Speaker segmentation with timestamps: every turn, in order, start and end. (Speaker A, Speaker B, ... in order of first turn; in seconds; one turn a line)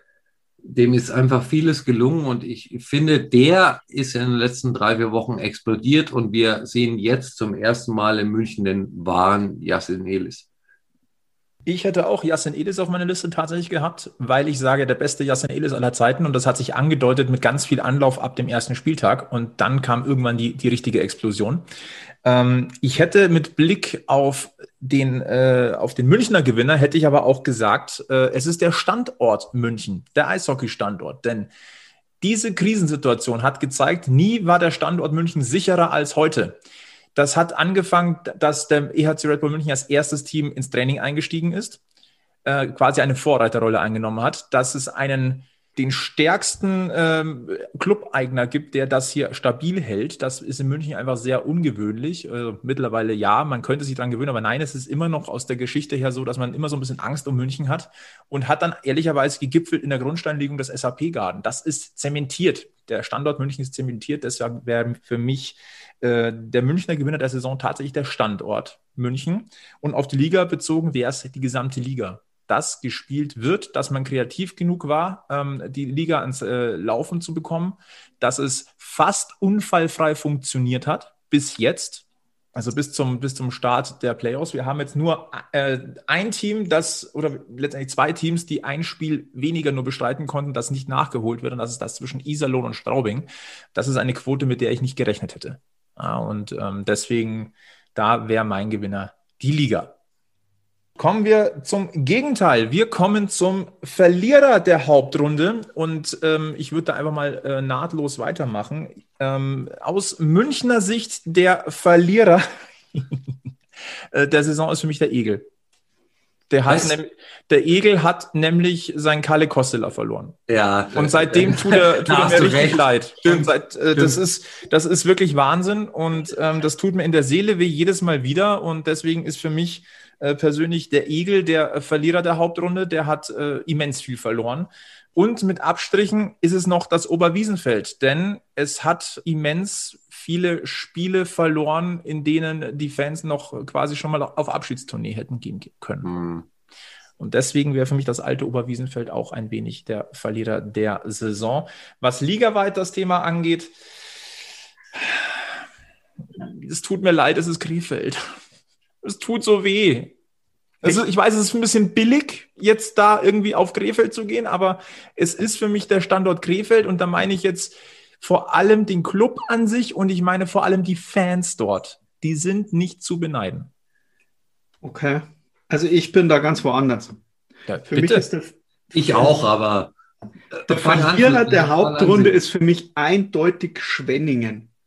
Speaker A: 0.6-10.4
Speaker B: 11.7-21.6
Speaker B: 22.2-31.5
Speaker B: 32.2-36.6
Speaker B: 37.1-41.8
Speaker B: 42.4-99.9
Speaker B: 101.0-113.2
Speaker B: 114.1-115.4
Speaker B: 116.5-120.4
Speaker A: 116.7-116.9
Speaker A: 120.5-124.2
Speaker B: 120.9-146.1
Speaker A: 146.0-146.4
Speaker B: 147.2-153.7
Speaker B: 154.9-155.4
Speaker B: 156.3-158.3
Speaker B: 159.0-160.1
Speaker B: 160.8-173.7
Speaker C: 174.8-177.2
Speaker B: 177.7-178.3
Speaker C: 177.9-178.5
Speaker A: 178.9-179.9
Speaker A: 180.5-182.4
Speaker C: 180.7-184.7